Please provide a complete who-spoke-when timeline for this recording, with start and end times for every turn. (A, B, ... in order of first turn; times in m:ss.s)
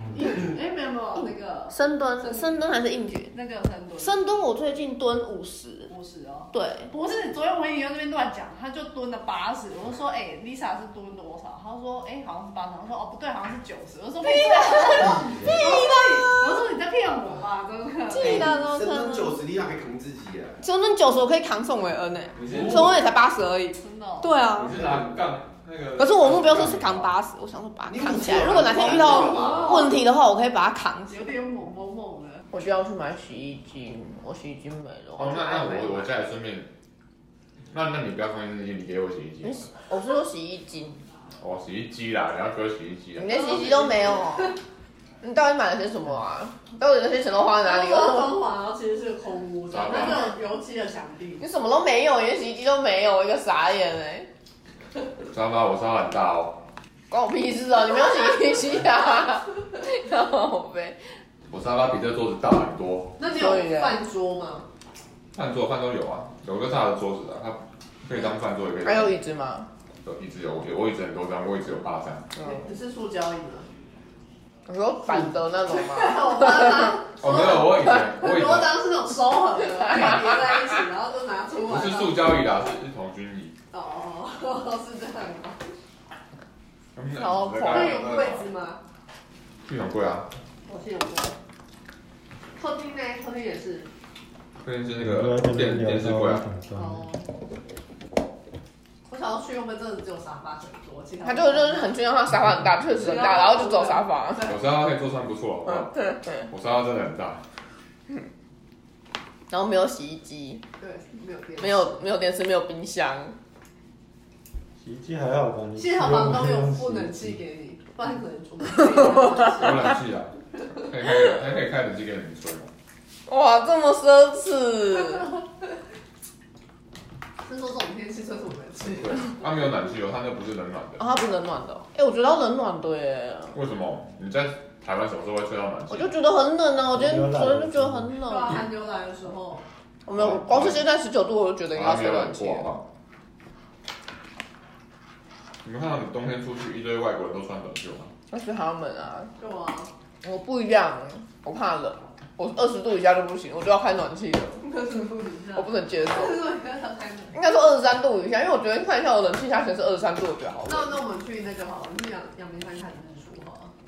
0:00.1-0:02.6 A
0:01.7-0:03.4 B
0:03.3-0:04.3 A
0:04.0-0:05.9 B
0:05.9-0:18.5 A
0:06.5-0:06.9 B
0:14.2-0:16.6 B
0:18.1-0:19.4 B
0:18.2-0:20.6 C
0:20.6-0:24.8 B
0:22.4-0:23.0 D
0:23.7-0:24.4 A
0:24.5-0:27.1 D
0:26.0-0:31.3 B
0:27.9-0:29.9 C
0:29.2-0:29.9 A
0:31.1-0:32.5 A
0:32.5-0:36.1 B
0:35.2-0:36.7 D
0:37.7-0:39.7 D
0:39.4-0:41.0 B
0:41.4-0:43.8 D
0:43.2-0:44.6 B
0:43.6-0:44.1 A
0:45.2-0:48.4 B
0:47.6-0:51.4 A
0:49.7-0:50.3 D
0:51.4-0:54.3 B
0:55.3-0:56.6 D
0:57.1-1:01.0 B
1:01.5-1:03.1 D
1:03.2-1:04.7 A
1:03.3-1:04.0 B
1:05.4-1:09.2 D
1:08.8-1:09.7 B
1:10.0-1:12.3 D
1:12.4-1:13.7 A
1:14.7-1:16.9 B
1:15.7-1:22.4 A
1:17.2-1:18.8 D
1:21.7-1:23.5 D
1:23.7-1:25.6 A
1:27.0-1:28.4 D
1:27.2-1:28.0 B
1:27.6-1:28.8 A
1:29.7-1:30.3 D
1:30.7-1:31.4 A
1:32.6-1:33.9 A
1:34.6-1:36.5 D
1:35.0-1:37.1 E
1:36.8-1:37.3 A
1:39.1-1:42.0 A
1:41.2-1:44.5 B
1:43.0-1:44.6 A
1:44.4-1:47.4 D
1:49.5-1:50.6 B
1:50.8-1:52.0 A
1:51.6-1:53.4 B
1:54.8-1:57.4 E
1:55.8-2:00.0 A
1:59.5-2:02.7 D
2:03.3-2:05.3 B
2:07.4-2:09.4 A
2:09.0-2:11.0 D
2:11.0-2:13.6 B
2:13.5-2:16.1 D
2:15.9-2:18.6 B
2:16.9-2:18.1 E
2:18.2-2:19.6 A
2:20.1-2:22.7 B
2:20.2-2:20.8 D
2:21.7-2:22.8 D
2:25.6-2:28.1 D
2:28.3-2:29.3 B
2:29.4-2:29.9 A
2:30.2-2:34.7 B
2:34.6-2:37.4 A
2:35.5-2:36.4 B
2:37.3-2:41.0 B
2:40.6-2:43.7 A